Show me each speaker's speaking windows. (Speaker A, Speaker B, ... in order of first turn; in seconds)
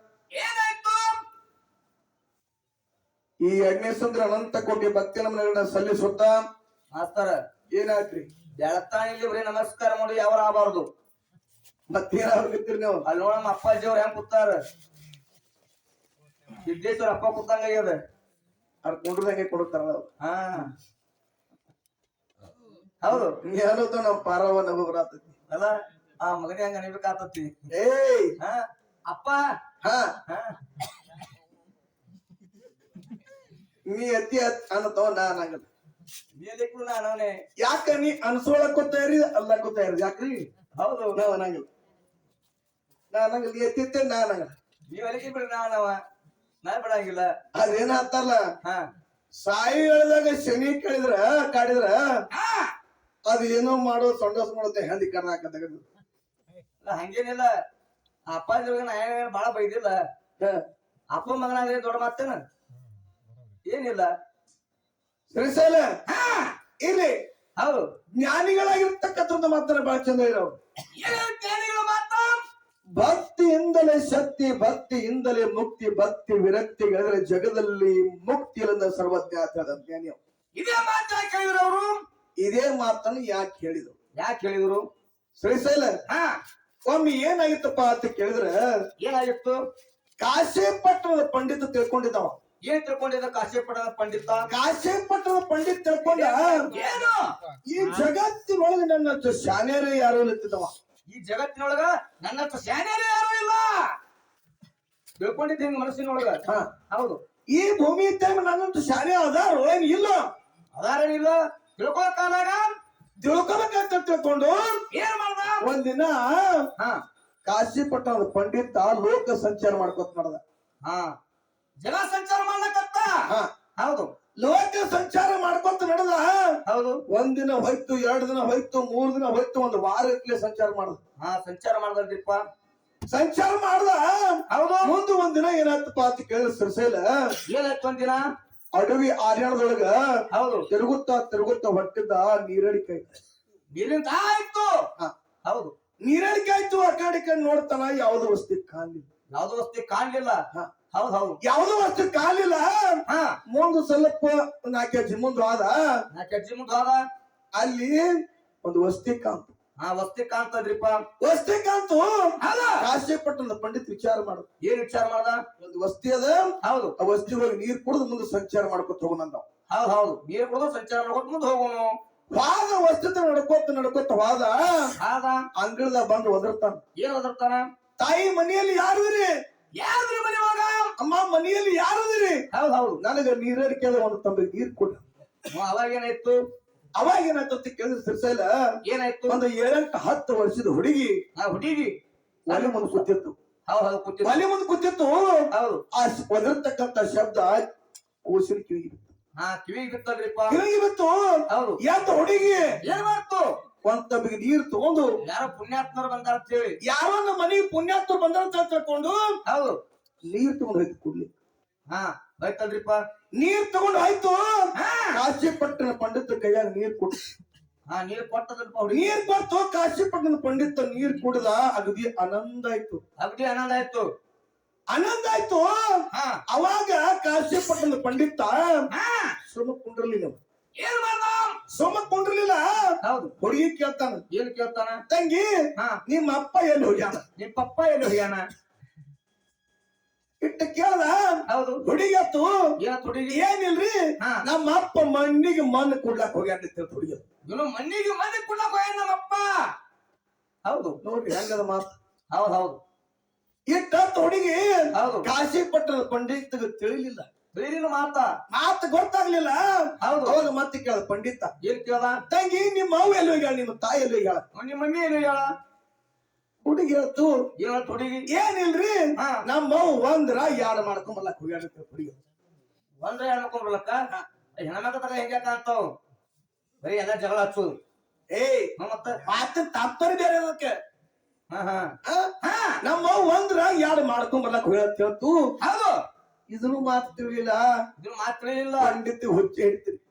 Speaker A: 0.3-1.2, 6.9-7.4, 8.6-10.9, 13.0-14.6, 16.6-18.0, 20.2-20.7, 23.0-23.4, 25.5-27.5, 28.4-29.4, 30.3-30.6, 36.4-37.4, 40.8-41.2, 44.9-46.0, 46.6-47.3, 48.6-48.9, 52.3-52.7, 56.8-57.5, 58.3-60.0, 61.1-62.4, 63.6-64.1, 66.1-66.5, 67.6-67.9, 71.0-72.4, 80.5-82.0, 84.2-84.8, 86.1-86.4, 89.0-89.6, 92.6-94.5, 96.1-97.3, 101.1-103.9, 105.2-107.2, 110.8-112.8, 114.9-115.6, 120.8-121.1, 121.8-123.2, 123.8-124.1, 126.7-127.0, 131.2-132.4, 134.5-134.9, 137.5-138.3, 140.3-140.7, 143.7-144.8, 145.4-145.7, 149.3-151.4, 153.1-153.3, 156.1-157.0, 159.8-161.1, 162.4-162.8, 164.6-165.4, 166.6-166.9, 169.7-171.9, 175.0-175.4, 176.9-177.7, 179.8-180.9, 182.5-183.0, 185.5-186.4, 188.8-189.4, 191.3-191.9, 192.5-193.0, 193.7-194.4, 195.5-195.8, 199.4-200.6, 201.5-201.8, 202.8-203.5, 205.2-206.8, 209.5-209.8, 211.9-213.0, 214.8-215.2, 217.9-219.3, 223.2-224.1, 226.1-226.4, 228.9-229.3, 230.8-231.6, 233.0-233.3, 234.3-235.0, 237.3-238.4, 241.5-241.8, 242.8-243.4, 244.2-244.4, 247.4-249.6, 250.6-251.0, 252.3-252.8, 254.9-255.3, 257.5-258.3, 260.0-260.4, 261.6-262.2, 264.5-265.5, 267.6-268.3, 269.2-269.4, 273.0-274.1, 274.6-275.9, 276.8-277.8, 278.8-279.2, 281.5-282.8, 285.6-286.0, 288.0-289.0
Speaker B: 3.4-6.4, 7.7-8.3, 11.9-13.0, 18.8-20.1, 23.1-25.4, 27.7-28.4, 29.8-30.1, 33.9-35.6, 37.6-40.5, 41.1-41.6, 43.1-44.5, 47.5-48.5, 49.4-52.2, 53.2-55.8, 65.3-65.9, 66.8-67.2, 68.2-70.6, 73.0-80.2, 82.4-83.9, 85.4-86.0, 86.9-88.6, 90.2-92.4, 94.5-96.7, 97.7-100.7, 107.5-110.3, 113.2-114.8, 115.6-116.7, 117.5-120.4, 124.4-126.5, 127.1-131.0, 133.1-137.3, 138.7-143.1, 146.0-149.1, 151.4-156.0, 157.5-158.1, 158.6-159.5, 161.2-164.5, 165.6-169.4, 172.3-174.9, 175.6-176.8, 178.0-179.3, 181.0-182.4, 183.0-185.0, 187.0-188.5, 189.3-191.2, 192.5-193.3, 194.2-197.6, 198.2-199.1, 200.5-202.7, 203.8-205.1, 206.8-209.4, 210.3-211.3, 213.4-217.2, 218.9-223.0, 224.9-228.9, 229.4-230.4, 231.7-234.2, 235.1-237.2, 240.4-242.6, 243.3-247.2, 251.0-251.9, 253.7-257.3, 258.5-261.5, 262.3-264.4, 266.6-267.4, 268.3-272.2, 278.3-278.7, 279.2-280.7, 282.0-285.5, 286.5-287.7, 288.8-290.0